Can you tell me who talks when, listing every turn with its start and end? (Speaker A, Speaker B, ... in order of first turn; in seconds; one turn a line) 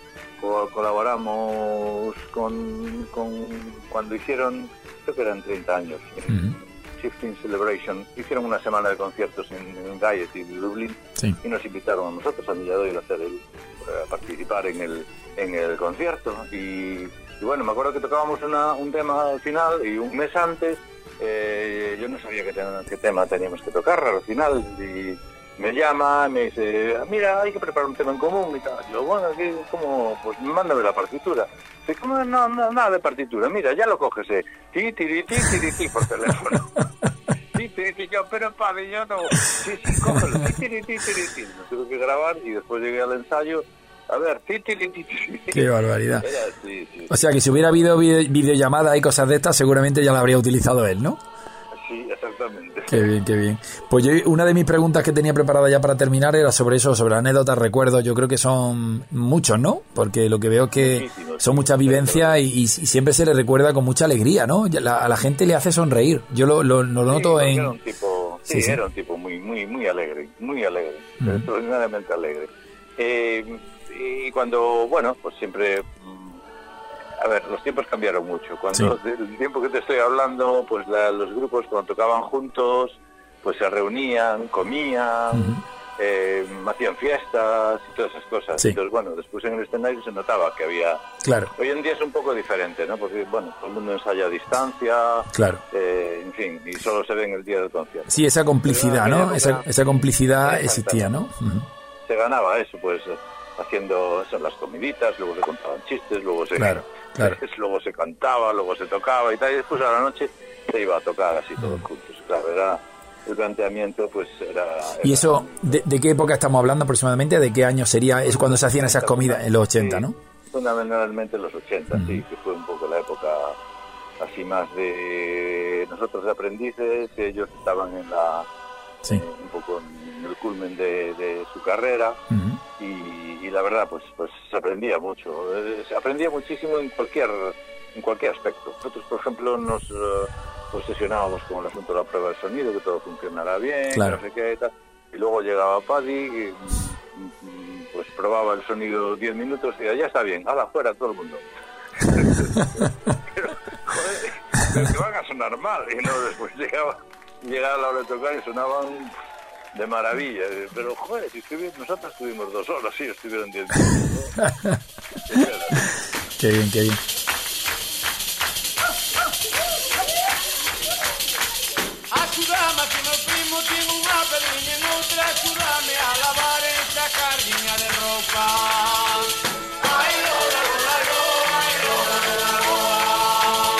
Speaker A: 0.4-36.7
Speaker A: 37.5-47.2
Speaker B: 45.5-46.2
Speaker B: 47.1-51.2
Speaker A: 51.8-53.0
Speaker B: 52.9-67.7
Speaker A: 60.7-62.4
Speaker A: 67.0-72.5
Speaker B: 68.5-68.8
Speaker A: 73.0-76.3
Speaker A: 77.2-91.0
Speaker B: 85.3-85.6
Speaker B: 91.2-91.5
Speaker A: 91.5-101.2
Speaker B: 95.3-95.6
Speaker B: 98.1-101.6
Speaker A: 102.0-115.8
Speaker B: 106.6-107.4
Speaker B: 115.0-120.1
Speaker A: 118.2-123.5
Speaker B: 121.9-122.2
Speaker A: 124.2-128.4
Speaker A: 129.0-132.2
Speaker B: 132.3-132.6
Speaker A: 132.8-151.4
Speaker B: 143.9-144.2
Speaker A: 152.1-159.1
Speaker A: 159.7-164.3
Speaker A: 165.3-165.9
Speaker B: 166.4-167.0
Speaker C: 172.1-179.3
Speaker C: 179.8-182.6